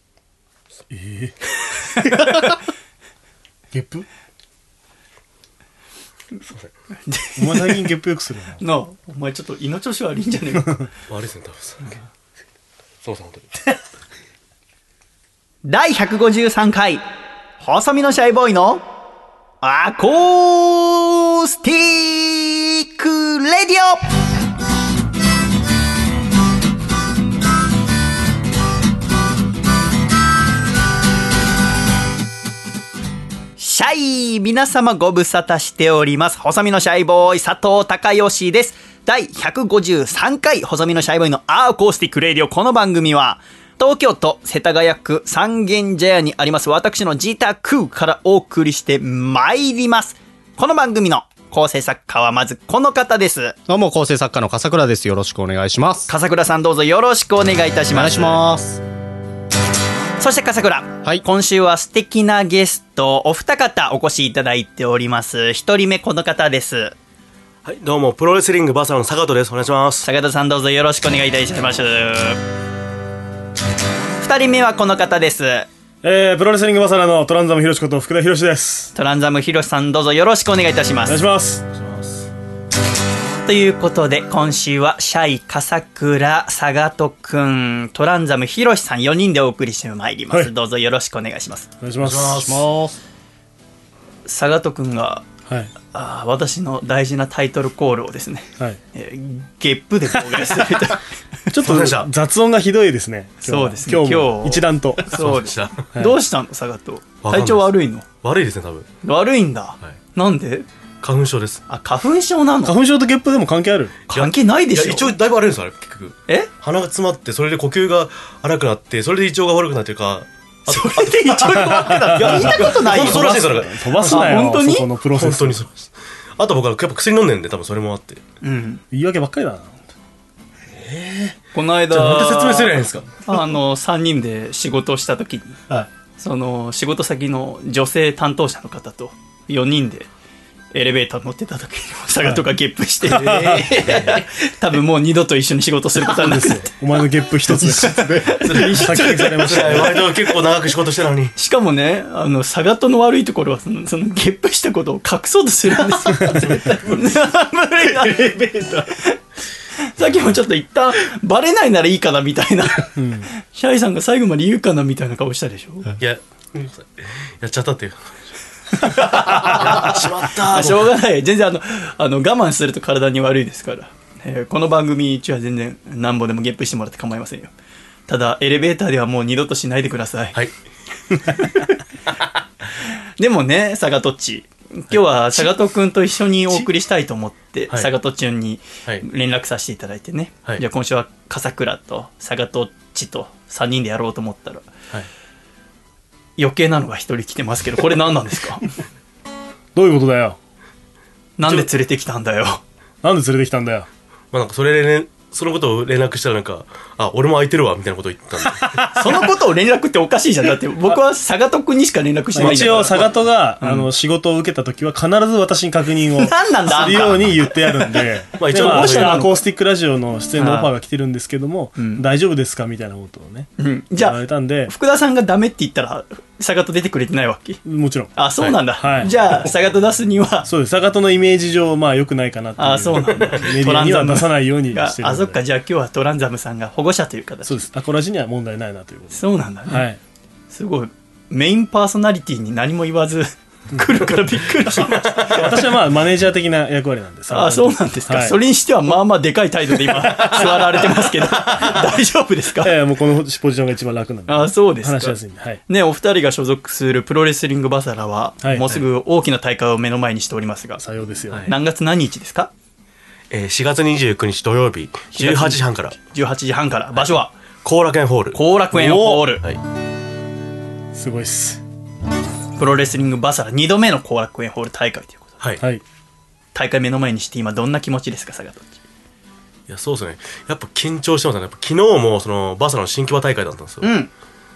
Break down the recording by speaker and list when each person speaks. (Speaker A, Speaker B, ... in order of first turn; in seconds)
Speaker A: 0.9-1.4, 1.9-2.3, 3.7-4.0, 7.4-8.6, 76.0-78.9, 81.0-81.6, 91.8-92.6, 95.5-95.7, 101.5-105.2, 112.6-113.9, 121.6-125.6, 128.9-129.8, 143.0-143.9, 146.0-150.0, 163.0-163.3, 199.7-200.4, 201.4-201.7, 203.0-203.9, 208.6-208.9, 212.3-224.7, 227.6-228.1, 228.8-229.1, 230.4-235.4, 237.4-240.0, 243.7-244.0, 245.3-248.4, 249.9-250.9, 251.6-251.8, 252.6-255.6, 258.4-258.8, 260.8-261.5, 268.7-269.4, 270.9-271.6
Speaker B: 2.0-2.5, 7.1-7.9, 8.6-10.9, 15.6-17.0, 17.6-18.8, 19.6-24.0, 33.6-53.5, 56.1-58.4, 60.2-66.9, 70.0-72.4, 74.2-75.7, 78.9-81.2, 83.3-91.7, 94.3-95.2, 95.9-101.0, 103.4-108.0, 109.0-110.7, 111.7-112.8, 114.1-115.1, 120.7-123.5, 124.1-124.9, 128.4-128.8, 131.5-135.6, 136.2-140.1, 140.7-146.7, 148.2-149.9, 151.3-158.4, 159.8-165.8, 168.8-177.5, 178.1-180.4, 181.4-181.7, 183.2-194.7, 196.4-198.7, 201.4-202.6, 208.9-213.9, 216.2-218.0, 218.6-219.2, 220.3-220.7, 221.8-222.0, 223.6-227.6, 228.1-230.5, 232.6-237.7, 239.1-239.8, 240.5-245.5, 247.3-252.7, 254.3-260.8, 261.4-262.5, 265.1-267.3, 268.3-269.4, 272.6-275.3, 276.5-278.8, 283.8-284.1
Speaker C: 11.1-11.9, 13.0-13.5, 67.6-70.0, 81.7-82.3, 92.0-92.6, 101.6-102.1, 105.1-105.8, 107.2-108.9, 111.0-111.6, 114.1-124.4, 125.1-128.2, 130.7-131.4, 131.9-133.1, 148.4-151.3, 166.0-168.2, 168.8-170.9, 204.3-208.8, 212.4-213.0, 218.4-219.3, 245.0-245.5, 263.3-265.9, 267.6-268.4, 279.7-283.9
Speaker D: 53.7-56.1, 57.9-58.8, 92.4-93.0, 143.4-144.0, 147.5-148.5, 156.7-157.0, 157.9-158.9